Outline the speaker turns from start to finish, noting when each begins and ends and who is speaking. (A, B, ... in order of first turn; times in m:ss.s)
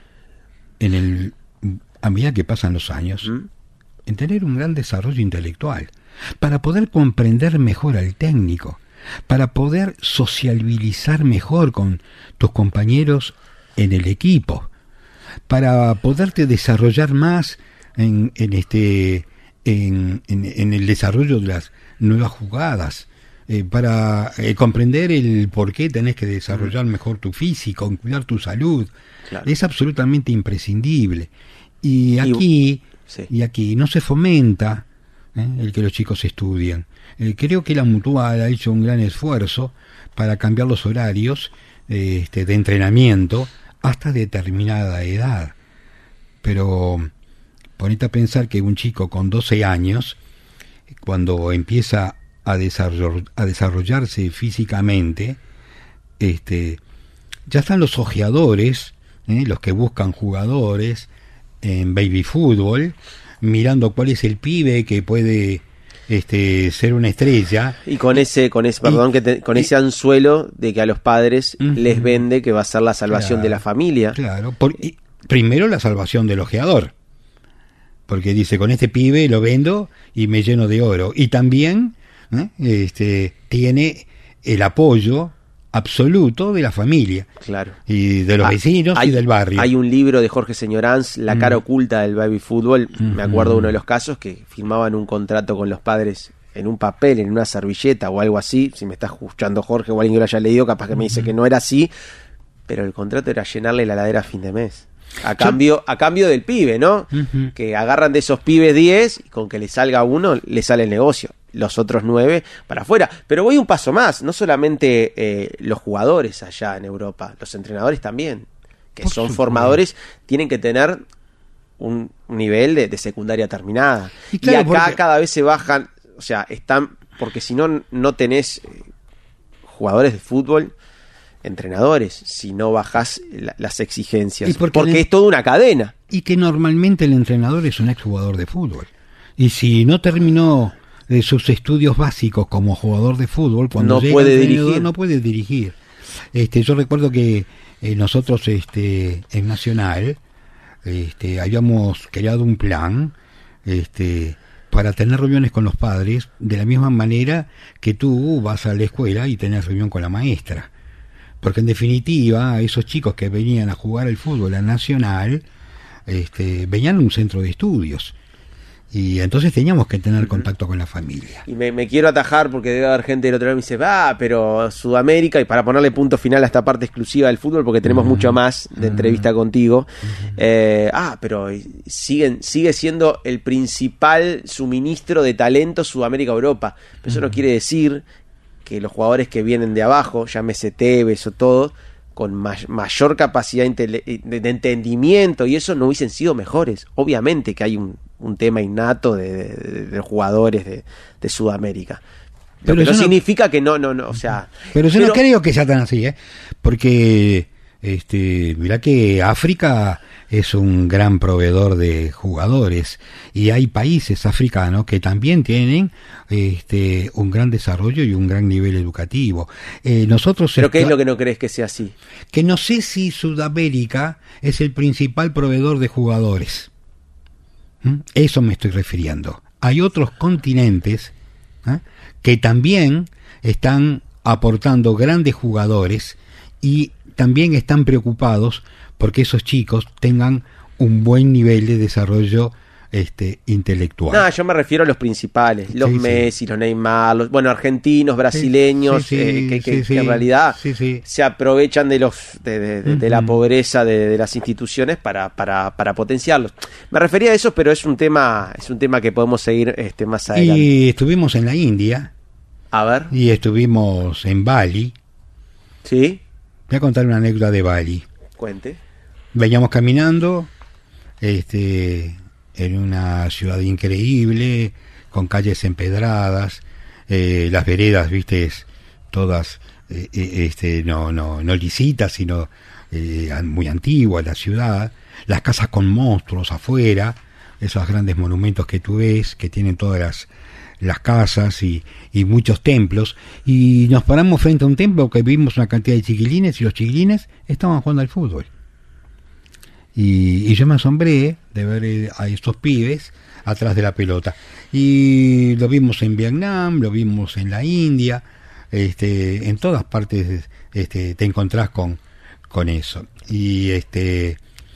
0:00.8-0:03.3 A
0:04.1-0:14.7 A
0:15.5-0:28.9 A
0:29.4-0:31.3 A
0:31.8-0:45.6 A
0:46.4-0:47.1 A
0:47.8-0:50.2 A
0:51.0-0:55.4 A
0:56.2-0:56.8 A
0:57.5-1:01.1 A
1:01.6-1:08.2 A
1:07.9-1:14.2 B
1:11.6-1:12.2 A
1:13.1-1:13.6 A
1:14.1-1:16.9 A
1:18.1-1:27.3 A
1:27.4-1:27.8 B
1:27.9-1:29.7 A
1:28.4-1:41.9 B
1:31.3-1:31.6 A
1:33.0-1:33.7 A
1:40.9-1:41.3 A
1:42.7-2:01.0 B
1:47.1-1:47.5 A
1:59.0-1:59.8 A
2:01.8-2:08.8 B
2:04.3-2:05.0 A
2:09.6-2:10.7 B
2:11.4-2:15.9 B
2:14.4-2:15.1 A
2:16.1-2:25.8 A
2:23.8-2:24.9 B
2:26.3-2:30.2 A
2:30.8-2:40.7 A
2:41.4-2:45.4 A
2:46.1-2:48.2 A
2:48.9-2:51.4 A
2:50.2-2:50.5 B
2:51.5-3:08.0 B
2:57.8-2:59.3 A
3:00.1-3:00.4 A
3:07.1-3:07.4 A
3:08.6-3:22.0 B
3:22.6-3:25.2 B
3:22.6-3:23.2 A
3:24.7-3:41.0 A
3:40.6-3:42.0 B
3:42.3-3:46.7 A
3:47.8-3:51.1 A
3:51.6-4:04.3 A
4:04.1-4:20.7 B
4:05.7-4:06.3 A
4:08.3-4:11.0 A
4:12.9-4:13.4 A
4:20.3-4:22.1 A
4:22.7-4:23.1 B
4:23.1-4:25.0 A
4:25.8-4:26.2 B
4:26.7-4:28.1 A
4:28.4-4:28.8 B
4:29.3-4:30.5 A
4:31.2-4:50.3 A
4:50.8-4:58.5 A
5:00.0-5:14.4 A